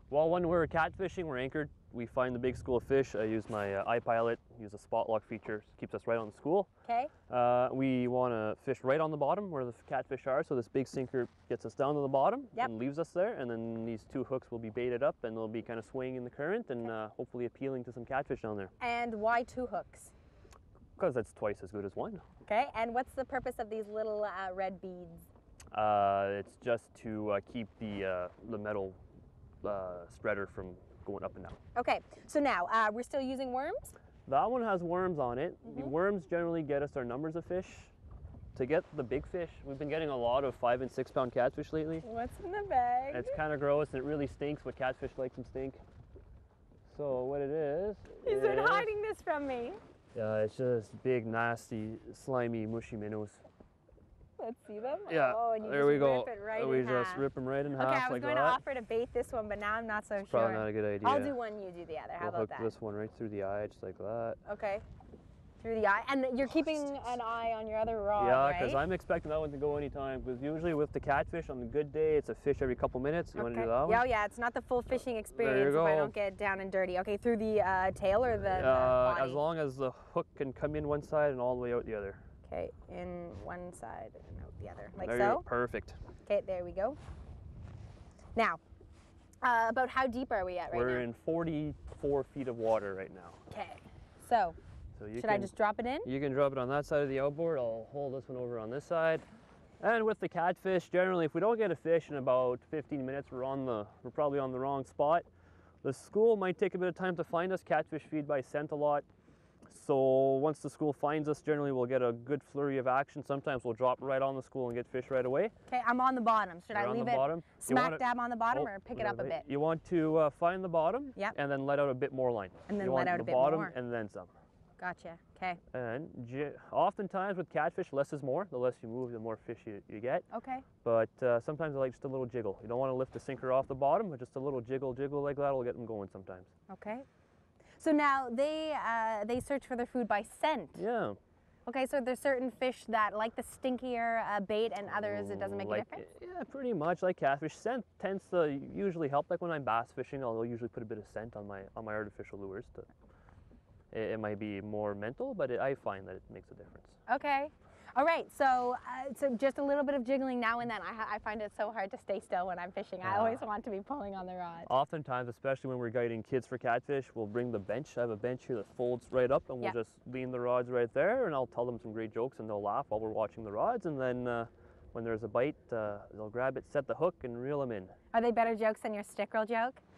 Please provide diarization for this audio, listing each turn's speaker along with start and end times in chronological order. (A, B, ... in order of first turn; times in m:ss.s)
0:00.1-0:06.7 A
0:06.8-0:07.1 B
0:07.3-0:18.7 A
0:18.8-0:20.1 B
0:21.0-0:22.2 A
0:22.4-0:25.3 B
0:25.7-0:29.0 A
0:29.6-0:31.6 A
0:31.7-0:33.9 B
0:34.2-0:37.9 A
0:35.6-0:35.9 B
0:38.5-0:42.0 A
0:42.0-0:43.4 B
0:43.1-0:45.8 A
0:46.9-0:48.9 A
0:48.2-0:49.8 B
0:50.1-0:53.4 A
0:54.4-1:02.7 B
0:55.1-0:58.6 A
1:00.2-1:01.4 A
1:02.2-1:04.4 A
1:04.4-1:04.8 B
1:05.6-1:08.8 B
1:08.2-1:14.0 A
1:13.3-1:19.4 B
1:15.3-1:16.1 A
1:18.5-1:22.2 A
1:22.5-1:25.4 B
1:25.0-1:26.0 A
1:26.2-1:27.0 B
1:28.3-1:28.6 B
1:29.4-1:31.1 B
1:30.7-1:33.4 A
1:33.5-1:34.6 B
1:35.0-1:35.5 A
1:35.1-1:36.1 B
1:36.0-1:39.2 A
1:39.8-1:45.2 A
1:45.8-1:49.0 A
1:49.7-1:55.5 A
1:55.7-1:59.4 B
1:56.7-2:04.3 A
2:02.7-2:03.7 B
2:04.8-2:05.6 B
2:05.7-2:10.2 A
2:10.3-2:10.6 B
2:10.8-2:16.5 A
2:16.7-2:17.0 B
2:17.8-2:20.8 B
2:20.8-2:21.2 A
2:21.6-2:26.0 B
2:24.9-2:32.8 A
2:33.9-2:37.0 A
2:37.1-2:44.7 B
2:43.0-2:43.4 A
2:44.7-2:57.9 A
2:58.1-2:59.8 B